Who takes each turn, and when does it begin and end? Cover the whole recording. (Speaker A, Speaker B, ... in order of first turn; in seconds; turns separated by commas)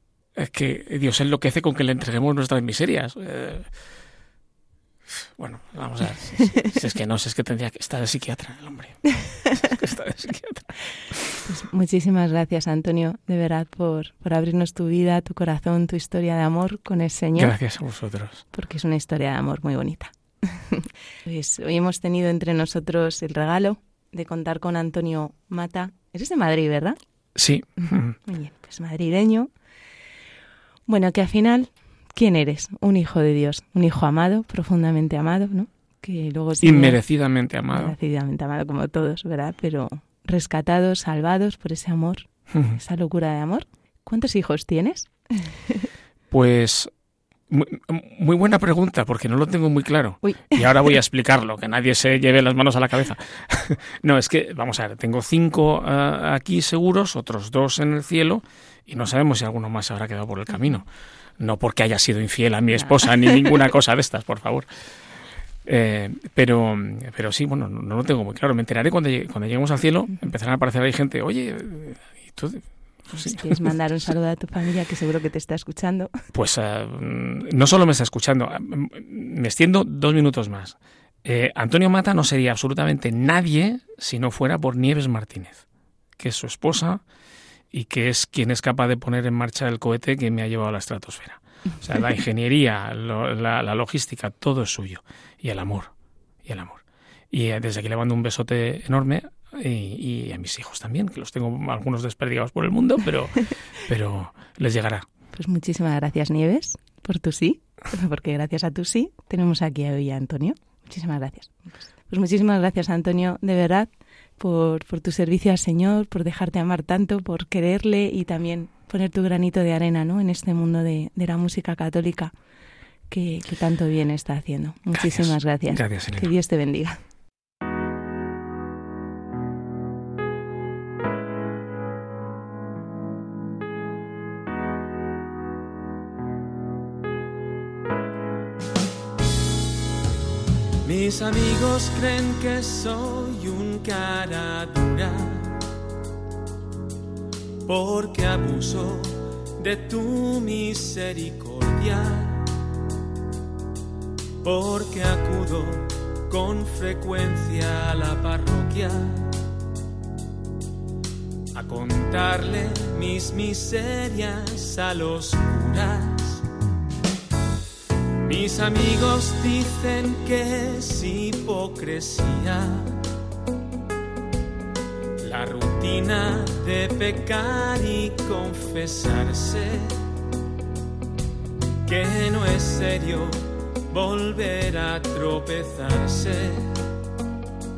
Speaker A: 0.4-3.7, Speaker A: 5.4-11.2, Speaker B: 11.5-17.6, Speaker A: 17.4-18.4, Speaker B: 18.5-27.0, Speaker A: 27.4-28.2, Speaker B: 28.3-29.5, Speaker B: 30.9-37.0, Speaker A: 36.6-38.0, Speaker B: 37.7-45.1, Speaker A: 42.5-42.8, Speaker A: 46.3-46.9, Speaker A: 47.5-60.9, Speaker B: 50.2-50.6, Speaker A: 61.4-64.7, Speaker A: 65.7-73.7, Speaker B: 73.1-76.1, Speaker A: 76.3-85.6, Speaker A: 86.2-87.0, Speaker A: 87.7-95.9, Speaker A: 96.4-105.1, Speaker B: 105.3-122.3, Speaker B: 123.1-127.0, Speaker A: 124.9-126.3, Speaker C: 140.8-145.6, Speaker C: 147.7-152.5, Speaker C: 154.4-159.3, Speaker C: 161.6-166.4, Speaker C: 168.2-173.0, Speaker C: 175.2-180.0, Speaker C: 181.8-186.8